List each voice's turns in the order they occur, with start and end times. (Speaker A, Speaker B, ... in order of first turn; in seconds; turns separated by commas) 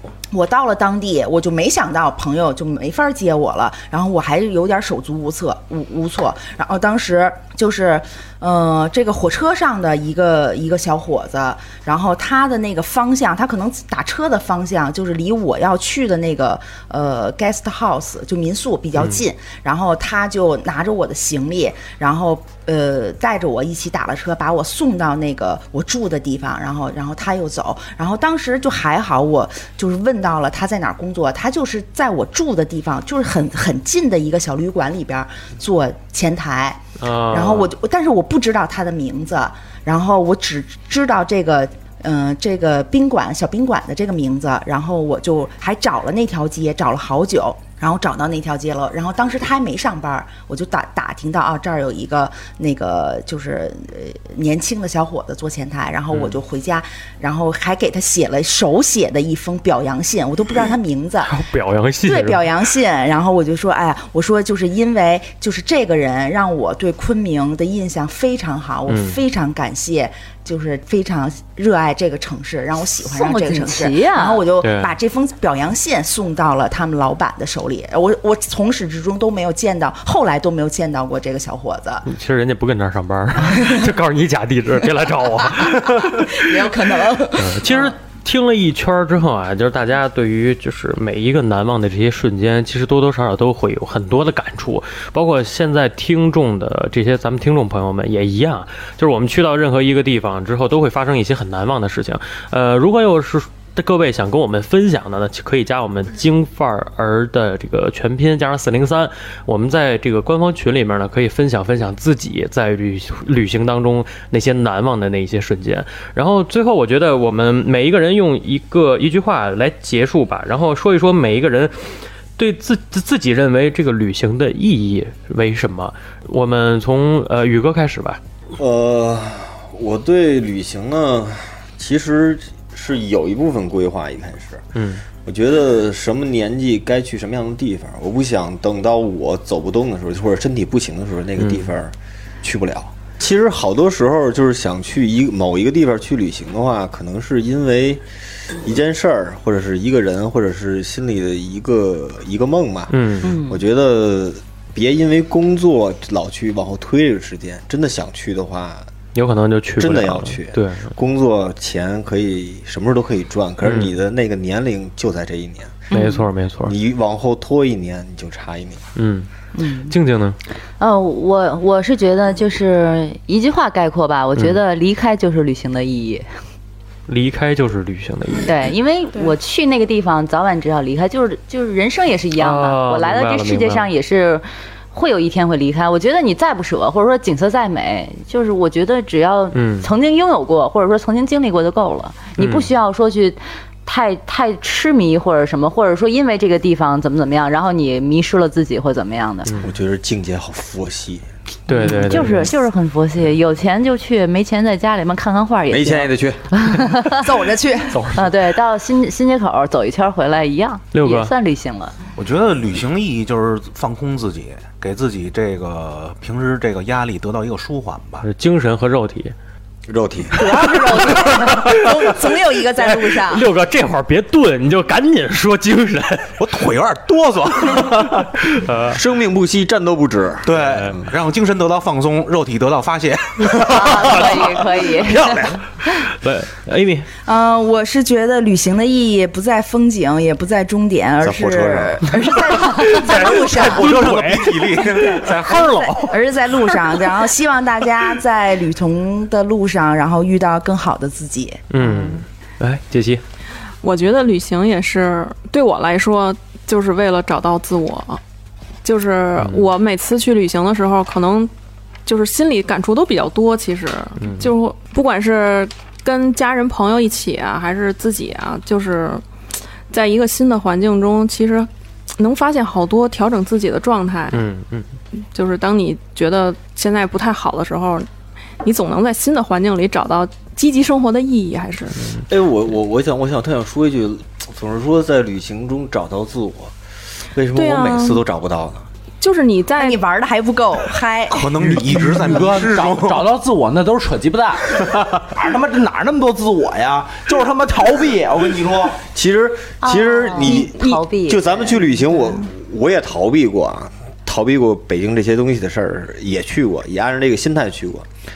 Speaker A: 0.3-61.3, Speaker B: 37.0-37.7, Speaker B: 56.1-56.4, Speaker B: 61.2-62.5, Speaker A: 62.0-82.1, Speaker B: 68.9-69.2, Speaker C: 73.0-74.4, Speaker B: 74.6-75.0, Speaker B: 82.1-86.7, Speaker A: 85.6-88.0, Speaker B: 87.4-128.2, Speaker D: 128.6-134.7, Speaker B: 134.8-135.0, Speaker D: 135.2-158.9, Speaker B: 141.4-141.8, Speaker B: 152.9-153.4, Speaker C: 153.3-153.6, Speaker B: 159.2-160.9, Speaker D: 159.8-165.9, Speaker B: 163.6-163.9, Speaker C: 165.9-166.3, Speaker B: 165.9-166.8, Speaker D: 166.6-168.8, Speaker B: 169.0-169.3, Speaker C: 169.6-169.9, Speaker B: 169.9-170.4, Speaker C: 170.8-176.2, Speaker B: 177.1-178.6, Speaker C: 178.5-199.5, Speaker B: 182.4-183.9, Speaker B: 189.5-189.9, Speaker B: 192.4-192.7, Speaker B: 199.5-199.7, Speaker D: 199.6-201.3, Speaker B: 201.7-202.5, Speaker C: 201.8-207.3, Speaker D: 205.7-206.5, Speaker A: 207.2-208.1, Speaker C: 208.1-211.9, Speaker B: 210.9-211.3, Speaker E: 212.2-218.3, Speaker B: 218.2-219.3, Speaker D: 219.9-220.4, Speaker A: 220.4-223.5, Speaker C: 220.4-221.7, Speaker B: 222.8-226.3, Speaker E: 226.4-228.4, Speaker B: 227.8-229.0, Speaker D: 228.9-231.0, Speaker E: 230.4-235.6, Speaker C: 233.6-235.5, Speaker B: 235.9-237.1, Speaker A: 237.2-244.2, Speaker E: 241.2-245.9, Speaker B: 242.9-246.2, Speaker A: 244.9-251.6, Speaker B: 251.7-253.2, Speaker C: 251.8-252.2, Speaker F: 253.8-258.2, Speaker F: 258.8-261.5, Speaker B: 259.4-259.7, Speaker F: 262.1-269.2, Speaker B: 264.2-264.5, Speaker F: 269.9-274.4, Speaker B: 274.3-274.9, Speaker F: 275.2-278.1, Speaker F: 278.6-282.1, Speaker D: 282.3-286.8, Speaker D: 287.3-288.9, Speaker F: 287.6-288.2, Speaker F: 289.2-290.0, Speaker A: 289.8-291.6, Speaker E: 291.3-293.3, Speaker G: 291.6-299.1, Speaker D: 299.1-308.1, Speaker C: 299.8-302.1